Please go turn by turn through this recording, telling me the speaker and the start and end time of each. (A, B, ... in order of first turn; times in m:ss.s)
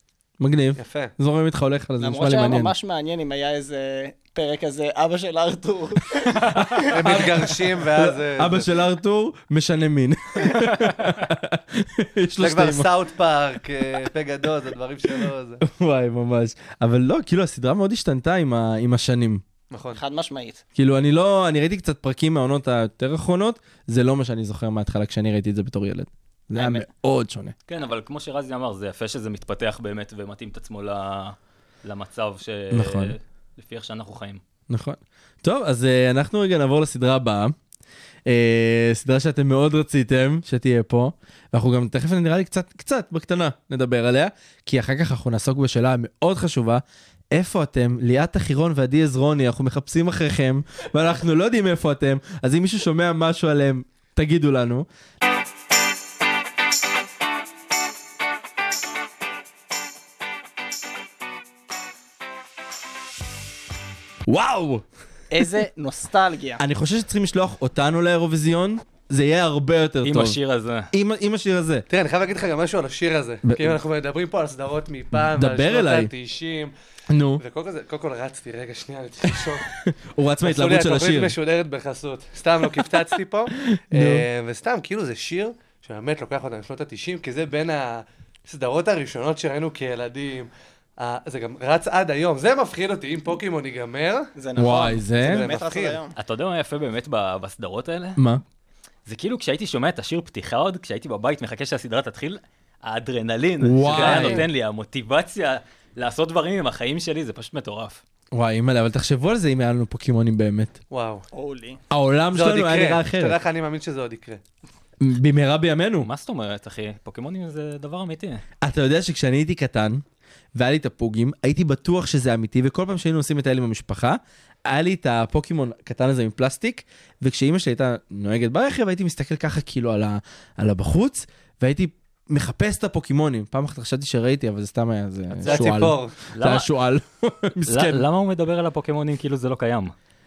0:00.4-0:02.7 A
0:00.8-0:01.1 B
0:02.0-0:06.8 C
0:06.5-0:12.9 A
0:06.9-0:08.7 B
0:12.4-0:15.6 B
0:15.6-0:19.4 A
0:19.7-0:20.0 B
0:19.9-0:20.6 C
0:20.7-0:27.5 A
0:26.5-0:26.8 C
0:27.7-0:34.4 D
0:32.7-0:33.1 A
0:34.7-0:37.5 A
0:38.2-0:54.9 A
1:04.3-1:04.8 A
1:05.3-1:06.6 C
1:06.6-1:10.4 A
1:10.0-1:10.9 D
1:10.9-1:11.8 A
1:11.9-1:16.7 B
1:13.4-1:13.8 A
1:15.1-1:16.1 A
1:17.1-1:17.4 A
1:17.4-1:19.7 B
1:19.8-1:21.4 A
1:20.4-1:34.3 B
1:23.6-1:24.2 A
1:34.4-1:36.1 C
1:34.6-1:35.5 A
1:35.2-1:36.0 B
1:36.2-1:38.2 D
1:38.2-1:38.4 A
1:39.0-1:48.0 D
1:43.6-1:44.4 A
1:44.0-1:44.4 C
1:48.3-1:50.8 A
1:50.9-1:51.2 B
1:51.3-1:51.8 C
1:51.9-1:53.4 A
1:52.3-1:54.4 B
1:55.0-1:56.1 A
1:56.0-1:58.4 D
1:58.6-2:00.0 A
2:00.5-2:18.0 A
2:15.4-2:16.2 B
2:16.3-2:16.7 D
2:17.7-2:19.9 D